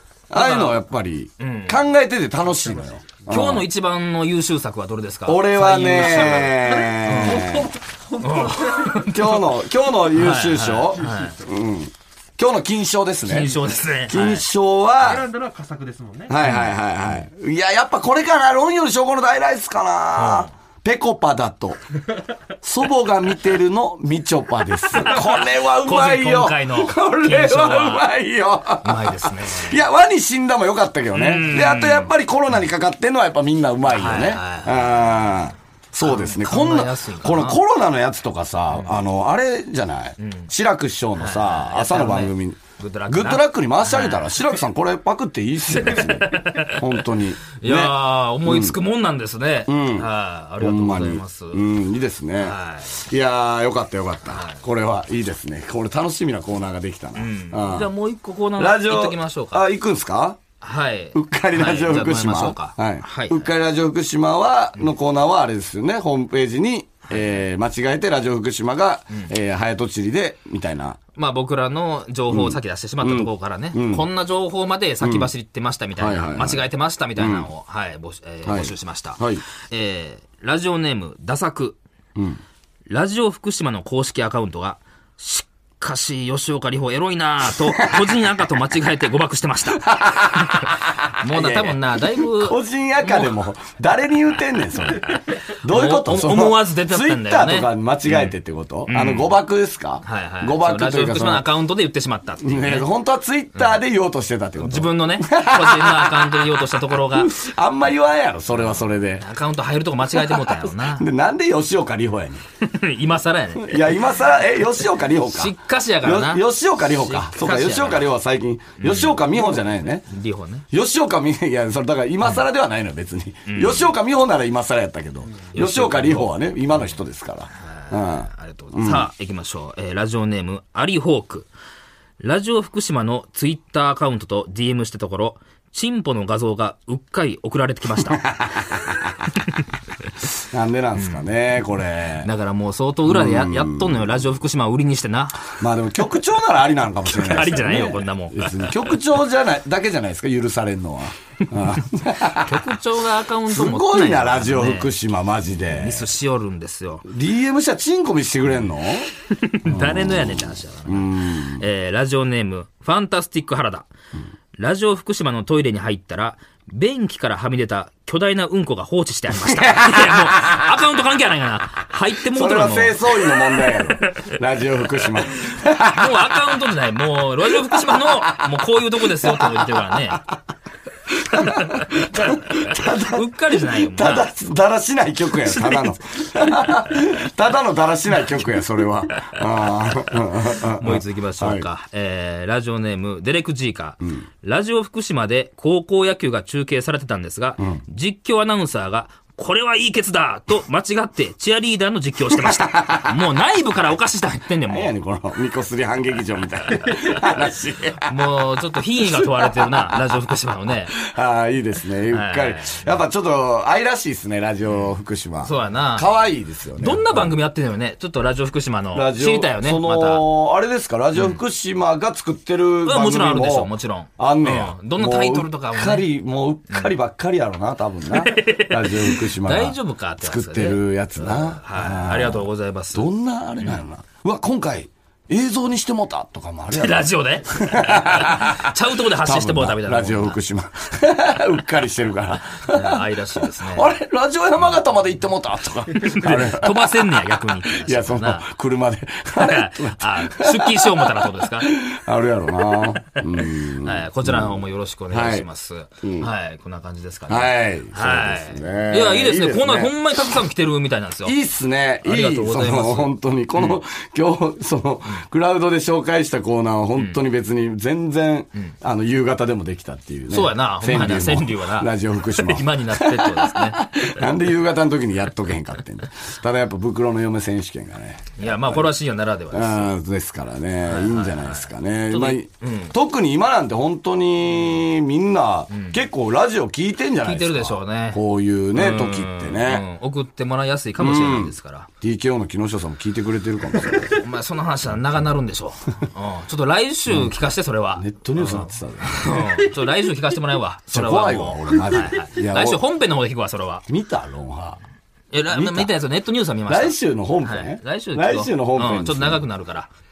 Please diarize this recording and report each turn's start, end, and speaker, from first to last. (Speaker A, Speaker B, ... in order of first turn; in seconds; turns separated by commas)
Speaker A: 0.3-3.7, Speaker B: 0.3-0.8, Speaker B: 1.4-1.8, Speaker B: 3.3-7.6, Speaker A: 5.3-7.7, Speaker C: 6.6-8.9, Speaker B: 8.2-9.5, Speaker A: 9.0-15.2, Speaker B: 10.1-11.4, Speaker C: 11.0-11.5, Speaker B: 13.2-14.5, Speaker C: 15.0-16.4, Speaker A: 16.3-21.8, Speaker B: 16.4-17.3, Speaker B: 20.1-20.5, Speaker A: 22.6-48.8, Speaker B: 24.9-28.1, Speaker B: 28.8-29.8, Speaker B: 31.1-32.1, Speaker B: 33.9-35.4, Speaker B: 36.0-37.6, Speaker B: 38.7-39.0, Speaker B: 40.2-40.5, Speaker B: 41.2-44.6, Speaker B: 45.7-51.6, Speaker A: 49.7-50.1, Speaker A: 50.6-57.9, Speaker B: 52.4-53.0, Speaker B: 54.3-54.6, Speaker B: 57.1-59.7, Speaker A: 58.6-60.4, Speaker B: 60.6-63.5, Speaker A: 61.1-71.0, Speaker B: 67.1-67.4, Speaker B: 71.2-81.8, Speaker A: 72.3-74.1, Speaker A: 75.0-75.3, Speaker A: 76.0-77.5, Speaker A: 78.5-79.4, Speaker B: 82.9-93.4, Speaker A: 87.8-88.2, Speaker A: 89.8-101.5, Speaker B: 95.7-98.3, Speaker B: 98.9-99.3, Speaker B: 100.0-102.9, Speaker A: 102.4-109.2, Speaker B: 103.5-103.8, Speaker B: 104.6-107.3, Speaker B: 108.5-111.1, Speaker A: 110.1-112.4, Speaker B: 112.6-114.0, Speaker A: 113.6-120.1, Speaker B: 115.3-118.1, Speaker B: 118.8-120.7, Speaker A: 120.7-129.1, Speaker B: 123.5-124.0, Speaker B: 125.5-127.0, Speaker B: 127.6-131.5, Speaker B: 132.2-138.4, Speaker A: 138.1-139.0, Speaker A: 140.5-142.3, Speaker B: 140.9-141.3, Speaker B: 142.2-145.5, Speaker A: 143.1-144.2, Speaker A: 145.6-152.8, Speaker B: 147.1-149.0, Speaker B: 152.4-154.9, Speaker A: 153.5-156.1, Speaker B: 155.6-157.1, Speaker A: 157.1-159.1, Speaker B: 159.3-163.9, Speaker A: 159.7-161.6, Speaker B: 164.6-174.3, Speaker A: 169.4-170.6, Speaker A: 172.2-176.7, Speaker B: 174.9-180.3, Speaker A: 177.4-180.2, Speaker A: 181.2-191.7, Speaker B: 181.3-184.3, Speaker B: 185.5-185.9, Speaker B: 190.1-204.9, Speaker A: 202.3-203.1, Speaker A: 204.7-208.3, Speaker B: 208.0-211.0, Speaker A: 209.0-210.2, Speaker A: 210.9-217.3, Speaker B: 212.1-212.9, Speaker B: 214.7-216.1, Speaker B: 216.8-220.3, Speaker A: 218.9-243.1, Speaker B: 221.1-221.4, Speaker B: 222.8-226.1, Speaker B: 226.7-226.9, Speaker B: 228.1-233.8, Speaker B: 236.7-240.4, Speaker B: 242.6-243.9, Speaker A: 243.6-255.5, Speaker B: 246.0-248.5, Speaker B: 249.4-251.8, Speaker B: 252.7-261.4, Speaker A: 256.0-256.3, Speaker A: 257.3-260.4, Speaker A: 261.2-279.0, Speaker B: 262.0-263.8, Speaker B: 266.9-267.2, Speaker B: 270.3-274.5, Speaker B: 278.4-279.9, Speaker A: 279.5-289.9, Speaker B: 280.9-283.0, Speaker B: 285.7-286.0, Speaker B: 287.2-288.2, Speaker B: 288.7-291.9, Speaker A: 291.0-294.2, Speaker B: 293.9-303.9, Speaker A: 297.1-297.4, Speaker A: 297.9-299.5, Speaker A: 300.9-302.8, Speaker A: 303.9-304.8, Speaker B: 305.3-309.9, Speaker A: 305.5-306.0, Speaker A: 306.7-309.5